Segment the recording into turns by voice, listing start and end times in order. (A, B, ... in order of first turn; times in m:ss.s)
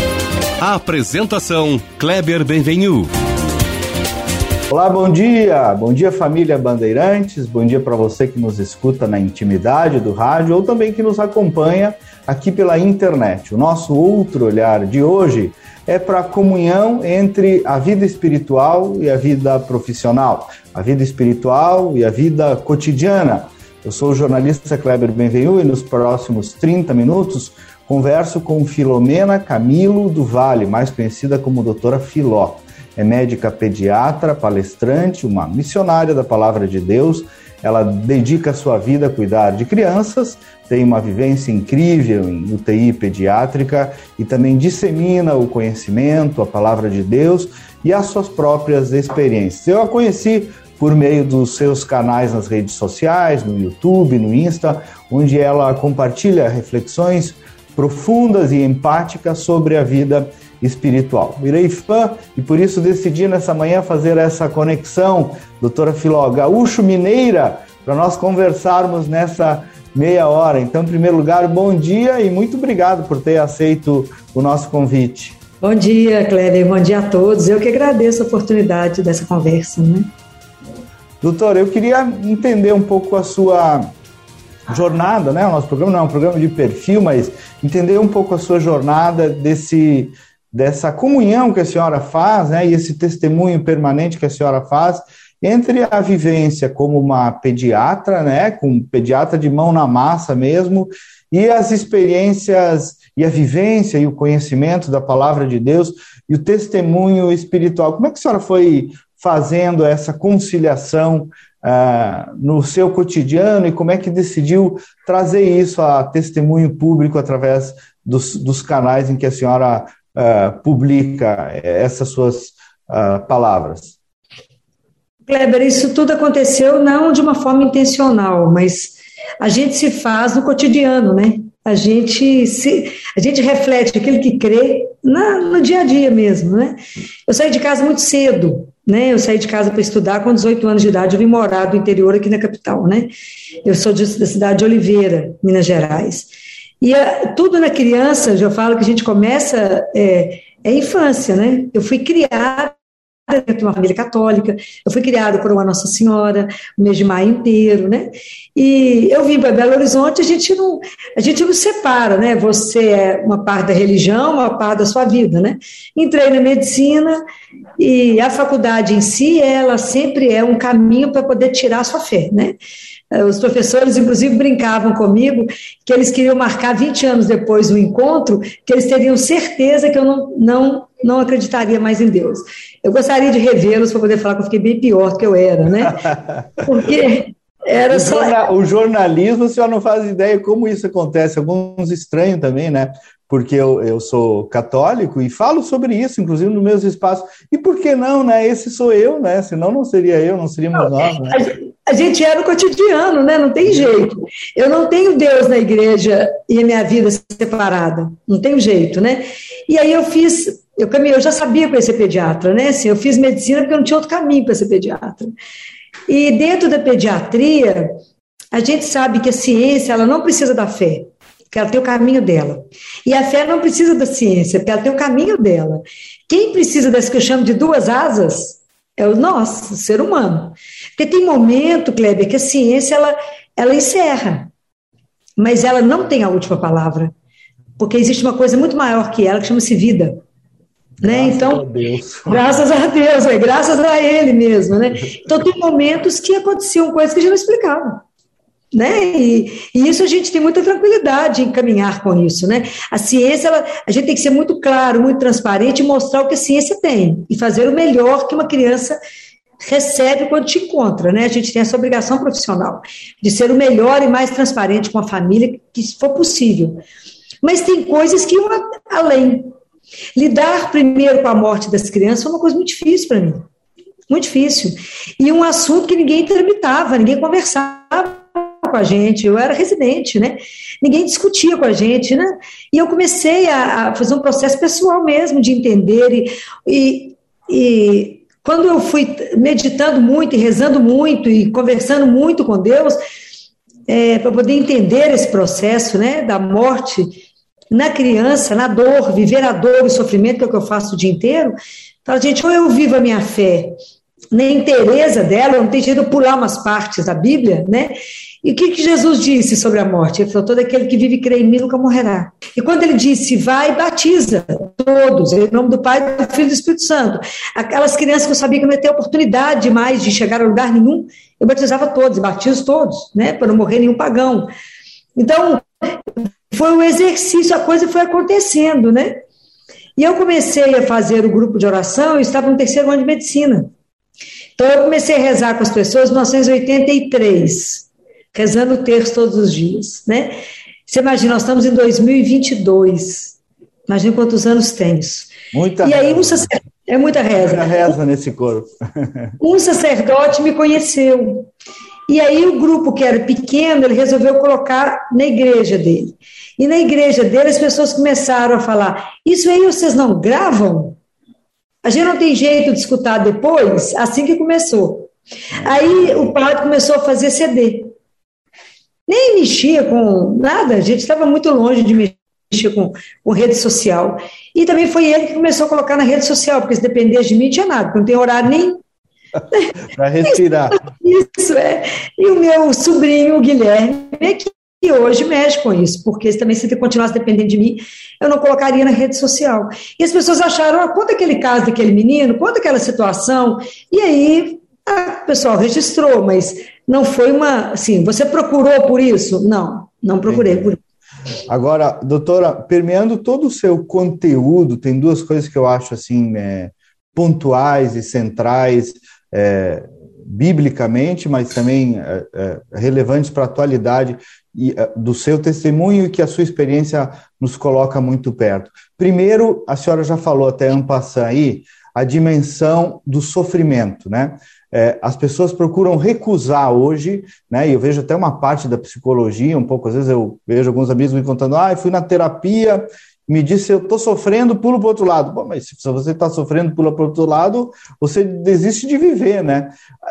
0:00.6-0:03.1 A
0:04.7-1:15.4 B
1:15.6-1:20.1 C
1:21.2-1:23.9 B
1:24.7-2:04.0 B
2:05.3-2:23.1 C
2:23.6-2:26.3 C
2:26.8-2:32.7 C
2:33.3-2:47.2 C
2:47.8-2:52.6 C
2:53.1-3:08.4 C
3:07.9-3:21.4 B
3:20.8-3:35.3 C
3:36.1-3:38.0 C
3:38.5-3:54.5 C
3:55.4-3:57.1 C
3:57.8-4:00.2 C
4:01.0-4:02.4 B
4:01.0-4:01.6 C
4:02.3-4:08.0 C
4:08.7-4:19.0 C
4:19.6-4:26.8 C
4:27.4-4:29.5 C
4:30.2-4:33.4 C
4:34.1-4:53.0 C
4:53.9-4:57.2 C
4:57.7-5:03.8 C
5:04.3-5:24.5 C
5:25.2-5:25.6 C
5:26.5-5:29.2 C
5:30.0-5:33.7 C
5:34.6-5:40.3 C
5:40.9-5:45.3 C
5:45.5-5:46.5 B
5:45.8-5:47.9 C
5:47.4-5:49.3 B
5:49.4-5:51.5 C
5:52.1-6:01.0 C
6:01.8-6:07.9 C
6:05.7-6:06.1 B
6:09.1-6:18.8 C
6:19.5-6:19.7 C
6:19.8-6:20.8 B
6:20.2-6:40.8 C
6:40.3-6:40.8 B
6:41.5-7:19.8 B